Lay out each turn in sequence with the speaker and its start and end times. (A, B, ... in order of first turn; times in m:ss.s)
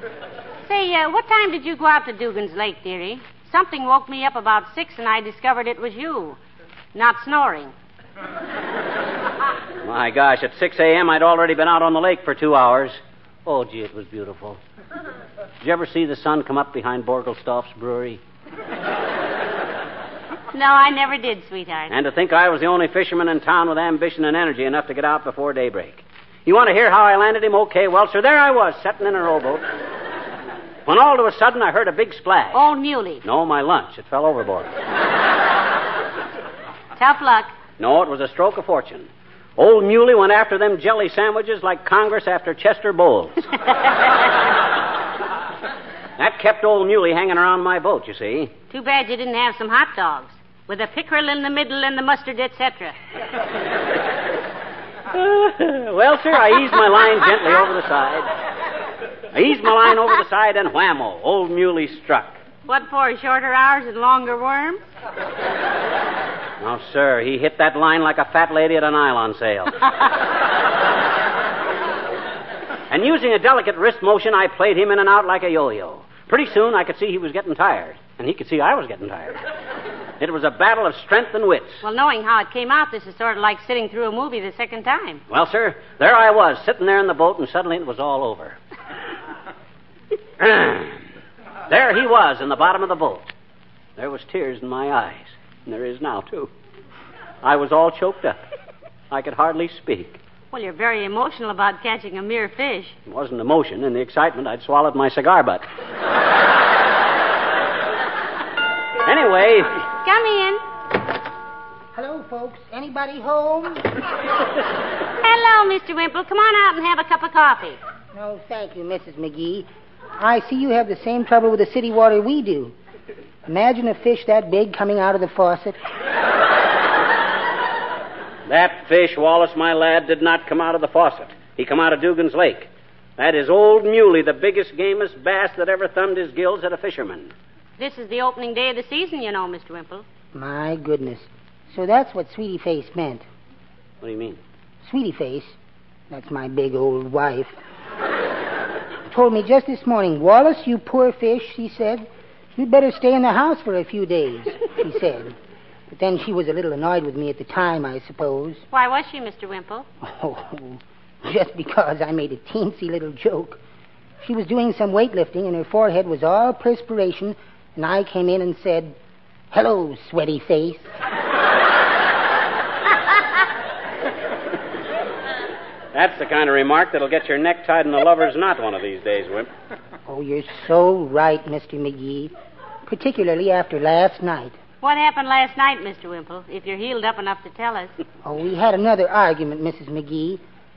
0:00.6-0:06.4 A
0:06.9-0:07.7 A
0:09.8-0:14.6 B
0:15.6-0:18.2 B
0:20.5-0:22.0 A
0:21.9-0:29.6 B
0:30.9-0:32.6 B
0:32.5-0:33.2 A
0:33.2-0:34.7 B
0:37.0-0:37.5 A
0:37.8-0:43.5 B
0:46.2-0:48.5 B
0:48.7-0:53.0 A
0:55.1-0:58.3 B
0:59.3-1:02.4 B
1:02.7-1:04.8 A
1:06.6-1:09.8 B
1:12.9-1:19.5 B
1:20.2-1:21.8 B
1:21.8-1:25.2 A
1:25.3-1:28.6 B
1:30.4-1:31.0 B
1:31.7-1:33.3 B
1:34.0-1:36.5 B
1:37.4-1:38.4 B
1:39.1-1:40.2 B
1:40.5-1:43.0 A
1:43.1-1:45.6 B
1:49.0-1:49.7 B
1:50.0-1:50.6 A
1:52.0-1:53.8 C
1:55.2-1:57.8 A
1:58.1-2:02.8 C
2:03.5-2:05.8 C
2:08.5-2:17.3 B
2:17.8-2:20.0 A
2:20.3-2:23.2 C
2:24.0-2:24.4 B
2:24.8-2:25.6 C
2:26.1-2:27.6 C
2:29.1-2:35.4 C
2:35.9-2:38.6 C
2:38.7-2:39.9 A
2:40.0-2:43.6 C
2:44.2-2:49.0 C
2:49.5-2:50.9 C
2:55.9-2:59.5 B
3:00.1-3:02.3 C
3:02.9-3:04.6 C
3:04.8-3:07.9 A
3:08.2-3:10.4 C